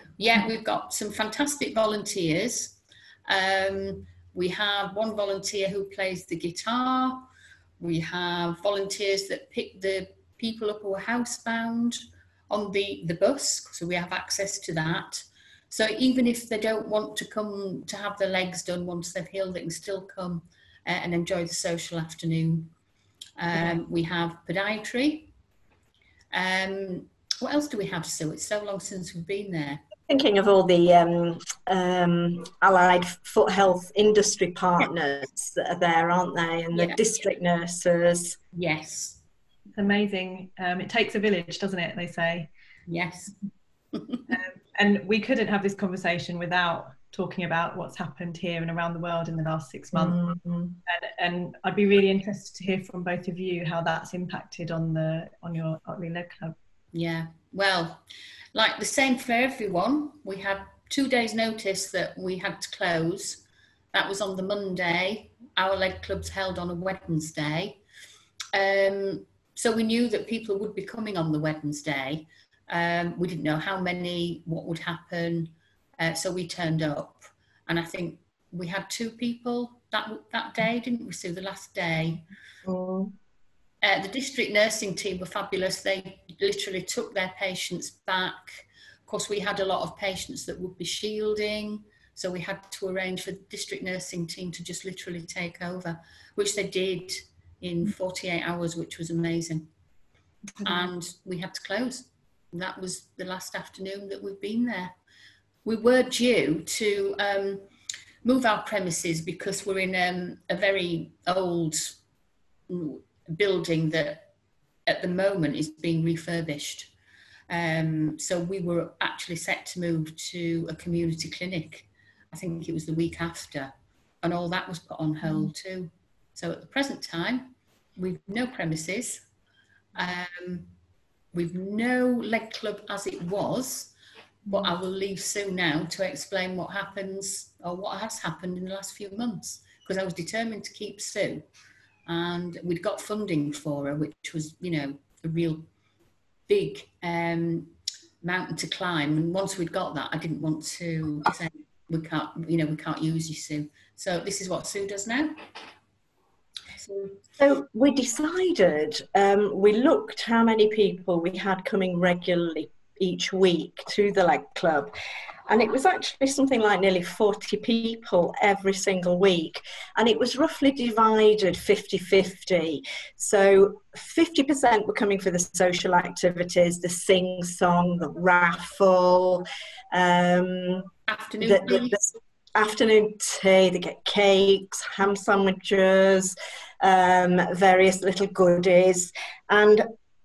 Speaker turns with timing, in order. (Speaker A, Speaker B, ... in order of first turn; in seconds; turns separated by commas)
Speaker A: 0.2-22.7, Speaker A: 23.4-25.3, Speaker A: 26.3-29.8, Speaker B: 30.1-38.4, Speaker A: 36.7-37.0, Speaker A: 38.5-39.2, Speaker C: 39.8-42.5, Speaker A: 42.9-43.3, Speaker A: 43.9-44.2, Speaker C: 44.3-50.2, Speaker B: 50.0-50.8, Speaker C: 50.9-56.5, Speaker A: 56.9-58.0, Speaker A: 58.5-67.8, Speaker A: 68.5-82.2, Speaker B: 82.7-83.1, Speaker A: 83.8-99.7, Speaker A: 100.6-104.9, Speaker A: 105.7-107.7, Speaker A: 108.2-112.0, Speaker A: 112.7-114.3, Speaker A: 114.9-116.9, Speaker A: 117.5-129.3, Speaker A: 129.9-130.7, Speaker A: 131.3-133.9, Speaker A: 134.5-141.5, Speaker A: 142.1-145.7, Speaker A: 146.5-155.3, Speaker A: 156.8-157.2, Speaker B: 157.4-164.9, Speaker B: 165.5-180.9, Speaker A: 181.1-182.0, Speaker B: 181.4-189.8